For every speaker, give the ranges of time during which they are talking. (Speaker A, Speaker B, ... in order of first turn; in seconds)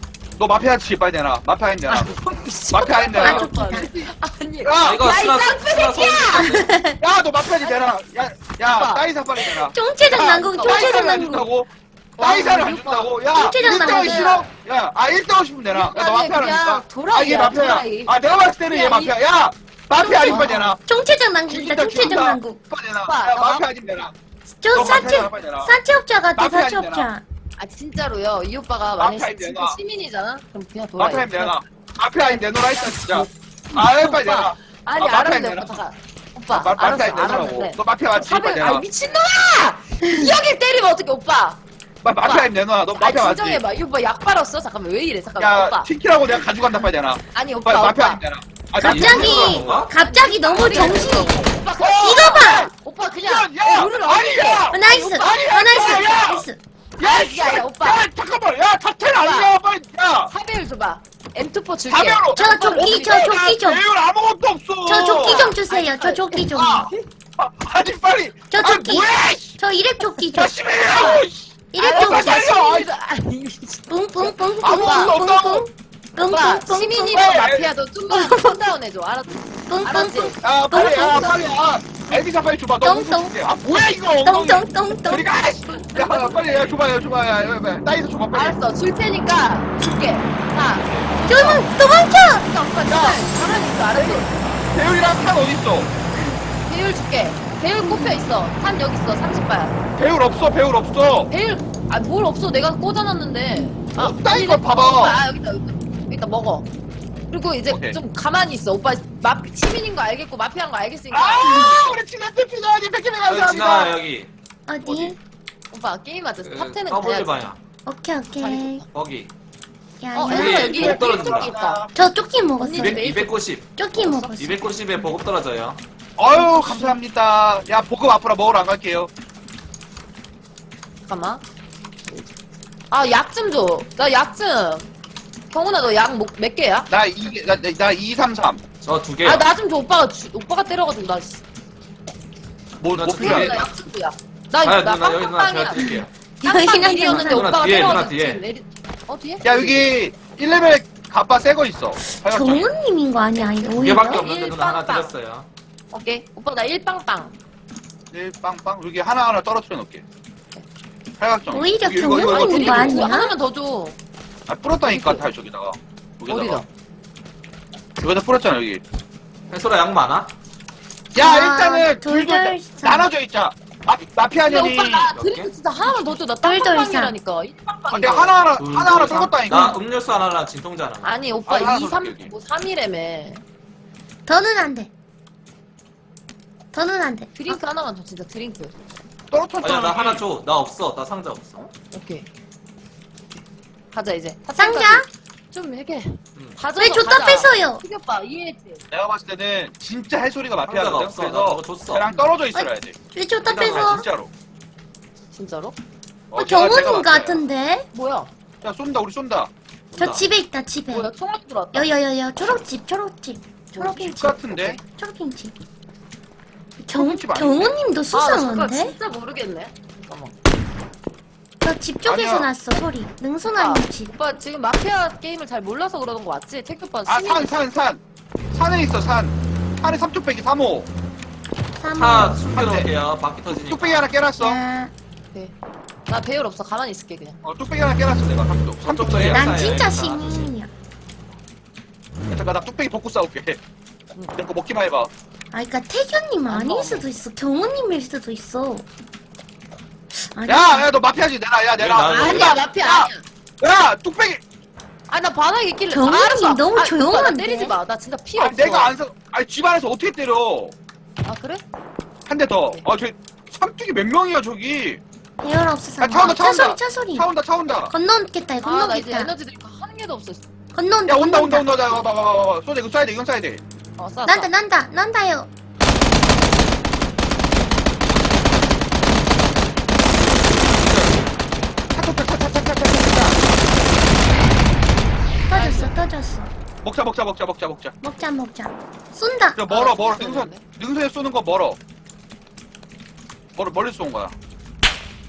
Speaker A: 0.3-2.2, 2.7-4.1, 4.6-5.1, 7.0-20.8, 21.5-24.1, 24.7-25.8, 26.4-27.1, 29.0-29.8, 31.0-35.8, 36.5-38.8, 42.0-43.6, 45.4-49.8, 50.7-51.0, 51.8-56.5, 57.0-60.3, 61.9-65.5, 66.5-69.6, 70.3-72.9, 74.6-75.7, 77.0-77.7, 80.4-88.6, 92.9-93.3, 93.9-95.9, 100.0-101.3, 104.0-105.2, 107.7-108.0, 111.1-113.9, 120.6-121.9, 126.2-129.1, 136.9-138.6, 142.8-143.7, 149.4-152.7, 158.1-160.0, 161.2-163.2, 164.5-166.6, 168.0-168.8, 171.1-175.1, 177.9-179.8, 181.5-182.3, 189.3-190.2, 198.9-202.9, 203.8-204.3, 206.3-207.4, 208.6-209.5, 213.8-214.8, 216.9-217.8, 222.0-222.5, 227.1-228.0, 228.5-230.9, 232.5-232.9, 233.5-234.6, 237.4-239.4, 242.3-243.6, 244.3-245.1, 250.4-254.4, 258.4-260.7, 262.2-265.0, 266.0-267.9, 271.1-273.6, 281.9-283.4, 286.8-288.0, 289.6-291.8, 293.6-294.3
Speaker B: 1.9-6.6, 8.6-9.1, 10.6-11.0, 12.2-14.5, 15.7-18.1, 18.7-19.1, 20.0-20.8, 23.1-23.6, 27.6-31.6, 32.1-41.6, 42.2-45.9, 46.7-48.2, 49.6-55.4, 57.0-58.0, 59.1-59.5, 60.3-63.3, 65.1-67.1, 70.9-71.2, 71.8-75.1, 76.3-81.3, 85.7-86.5, 88.3-91.6, 92.4-94.3, 96.7-99.8, 101.3-106.7, 107.3-112.0, 115.7-117.3, 118.4-118.8, 120.1-121.8, 122.6-123.3, 123.9-124.3, 126.3-127.0, 131.1-131.4, 132.9-134.9, 135.5-136.9, 139.2-141.4, 143.1-149.9, 153.4-155.1, 155.9-157.3, 162.3-164.0, 164.8-165.2, 166.3-166.7, 174.4-178.4, 181.0-183.4, 187.3-188.7, 191.6-192.3, 193.9-198.8, 205.3-205.8, 207.9-208.3, 210.9-211.9, 213.7-214.8, 218.1-220.3, 223.4-227.6, 236.1-237.4, 246.5-247.1, 252.1-253.2, 255.1-258.9, 261.2-261.6, 268.6-270.4, 274.0-274.5, 285.5-286.0, 289.7-290.6
Speaker C: 3.1-3.9, 6.4-7.0, 9.6-11.4, 13.3-14.4, 20.0-22.6, 24.5-27.2, 40.1-40.3, 48.8-51.4, 52.0-52.7, 54.7-56.6, 62.4-63.8, 64.8-66.9, 68.5-70.5, 71.7-72.5, 73.9-77.3, 78.1-78.6, 79.7-81.4, 82.8-83.3, 84.2-85.3, 91.3-92.5, 97.8-98.2, 111.4-111.7, 114.7-115.2, 117.8-118.8, 120.0-120.9, 121.9-123.1, 123.8-124.7, 146.4-147.9, 152.1-154.2, 161.5-163.3, 171.2-173.1, 175.9-177.1, 184.2-184.9, 186.7-187.6, 194.6-195.1, 196.8-197.8, 202.5-204.0, 206.3-207.9, 210.0-211.1, 211.7-215.5, 216.8-218.9, 221.6-224.1, 231.8-232.4, 234.4-234.9, 239.3-240.7, 245.5-248.8, 250.1-250.9, 255.9-257.7, 265.4-267.3, 267.9-269.3, 270.7-271.8, 274.2-275.5, 285.5-286.5, 288.0-289.6
Speaker D: 4.8-6.7, 48.8-49.9, 113.3-114.3, 116.4-117.6, 118.9-119.3, 120.3-121.5, 122.8-123.8, 124.3-125.8, 138.8-139.5, 142.9-143.7, 144.6-146.1, 146.9-148.4, 153.7-155.5, 169.5-170.3, 175.1-175.5, 178.6-181.2, 189.6-191.6, 200.6-202.1, 203.4-204.1, 209.9-210.3, 231.9-234.1, 238.8-240.5, 251.8-252.6, 280.8-281.1